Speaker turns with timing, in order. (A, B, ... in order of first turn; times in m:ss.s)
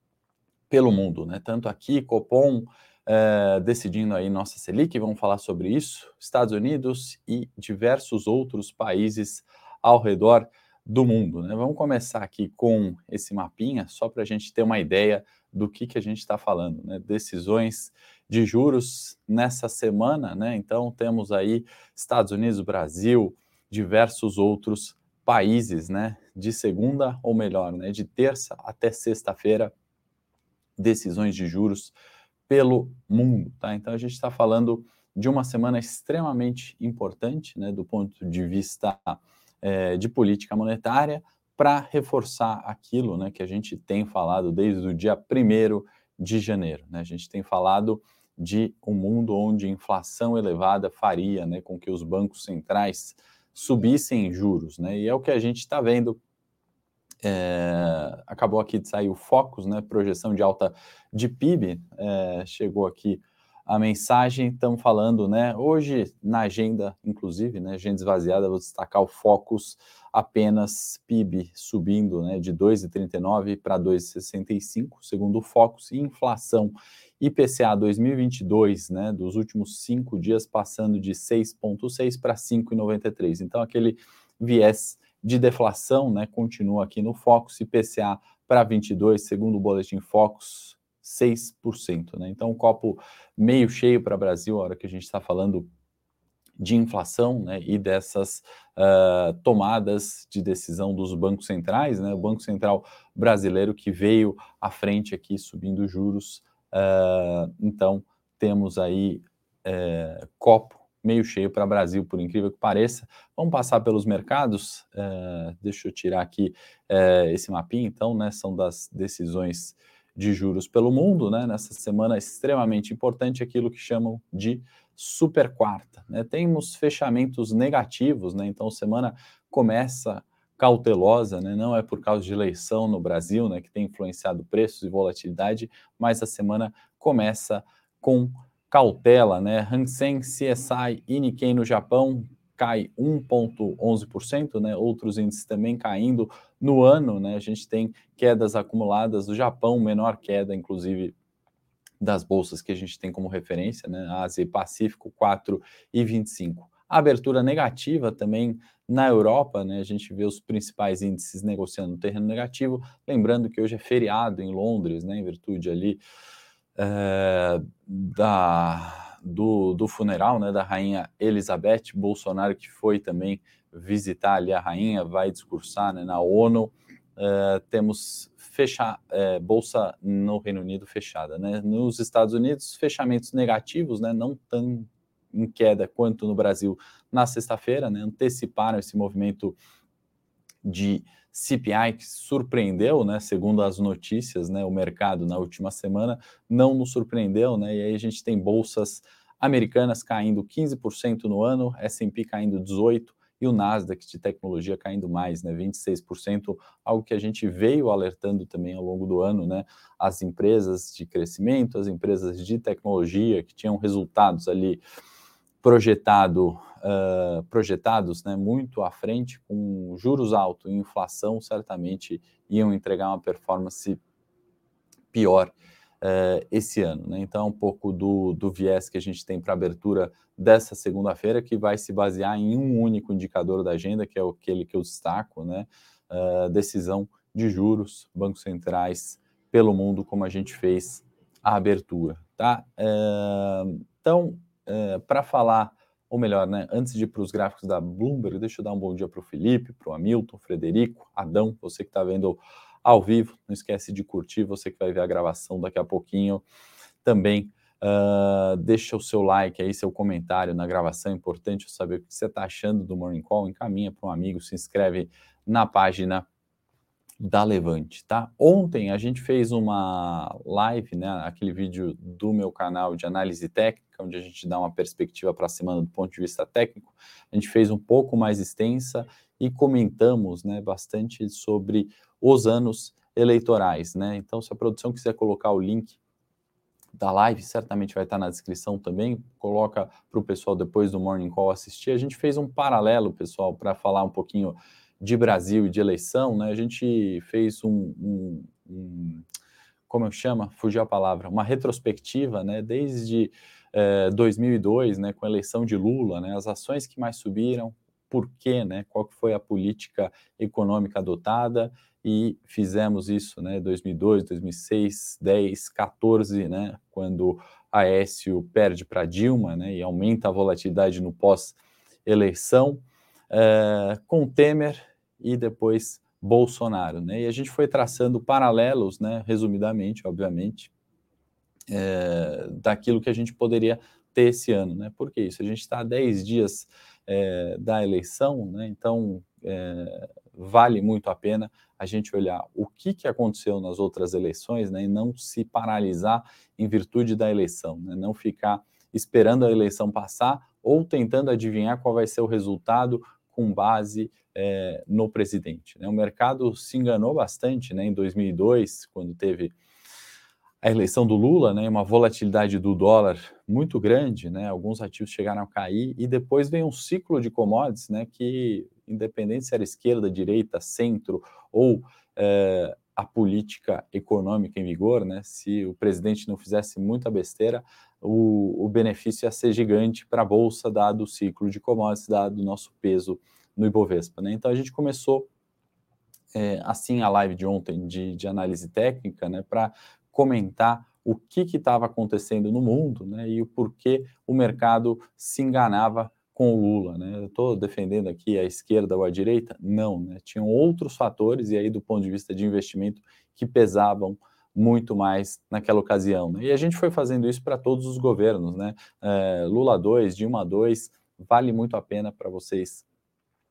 0:00.7-0:29.7 A
0:30.8-0:31.9 A
0:32.5-0:56.2 A
0:57.2-1:35.7 A
1:36.6-2:31.1 A
2:32.0-2:46.0 A
2:46.8-3:09.6 A
3:10.6-3:34.8 A
3:35.6-3:44.0 A
3:45.1-4:16.4 A
4:17.0-4:26.3 A
4:27.2-4:46.0 A
4:47.0-4:59.2 A
4:59.9-5:30.7 A
5:31.7-5:59.5 A
6:00.6-6:25.3 A
6:26.3-6:52.8 A